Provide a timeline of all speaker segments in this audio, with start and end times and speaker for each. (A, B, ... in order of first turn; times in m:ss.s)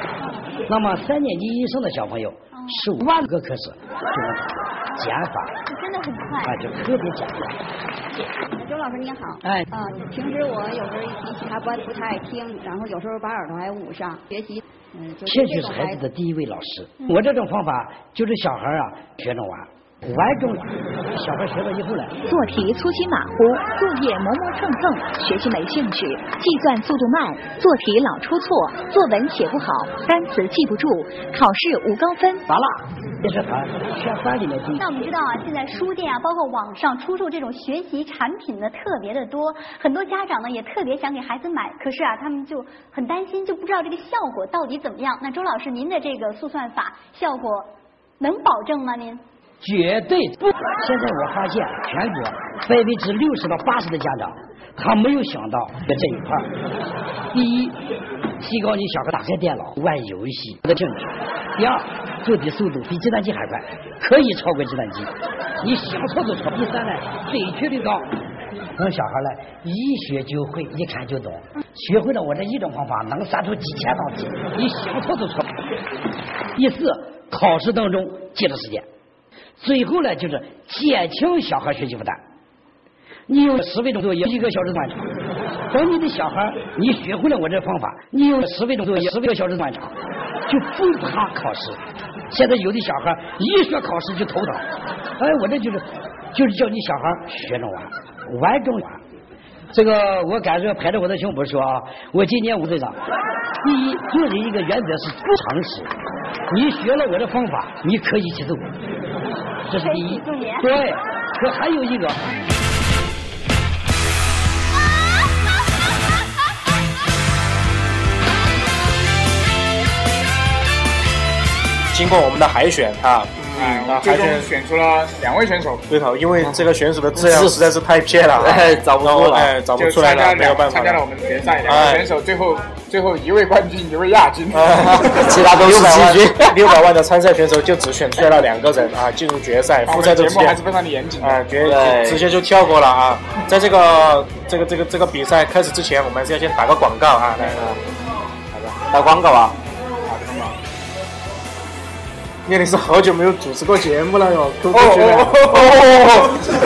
0:00.7-0:05.6 A
0:02.5-0:02.8 B
0:05.7-0:06.5 B
0:06.4-0:07.6 A
0:08.5-0:16.0 C
0:09.4-0:09.7 A
0:15.2-0:22.2 A
0:22.2-0:32.4 D
0:32.5-0:34.8 A
0:34.8-0:49.2 B
0:49.6-0:56.5 A
0:57.3-0:57.8 A
0:58.4-1:08.2 A
1:08.8-1:15.5 A
1:16.6-1:18.8 A
1:19.6-1:22.2 A
1:23.3-1:25.1 A
1:25.7-1:29.9 A
1:30.5-1:31.8 A
1:32.3-1:34.6 A
1:35.2-1:39.0 A
1:39.7-1:43.0 A
1:43.6-1:45.9 A
1:46.5-1:48.7 A
1:49.7-1:52.2 A
1:49.8-1:50.7 B
2:01.9-2:04.5 E
2:03.5-2:05.8 F
2:05.9-2:11.0 E
2:07.1-2:07.6 G
2:08.4-2:09.5 G
2:09.7-2:14.9 F
2:11.7-2:12.1 E
2:14.5-2:20.6 E
2:14.9-2:16.6 G
2:19.8-2:21.4 F
2:21.2-2:27.7 E
2:21.6-2:22.2 G
2:28.9-2:29.6 G
2:30.0-2:30.6 F
2:32.4-2:35.8 E
2:34.7-2:36.3 F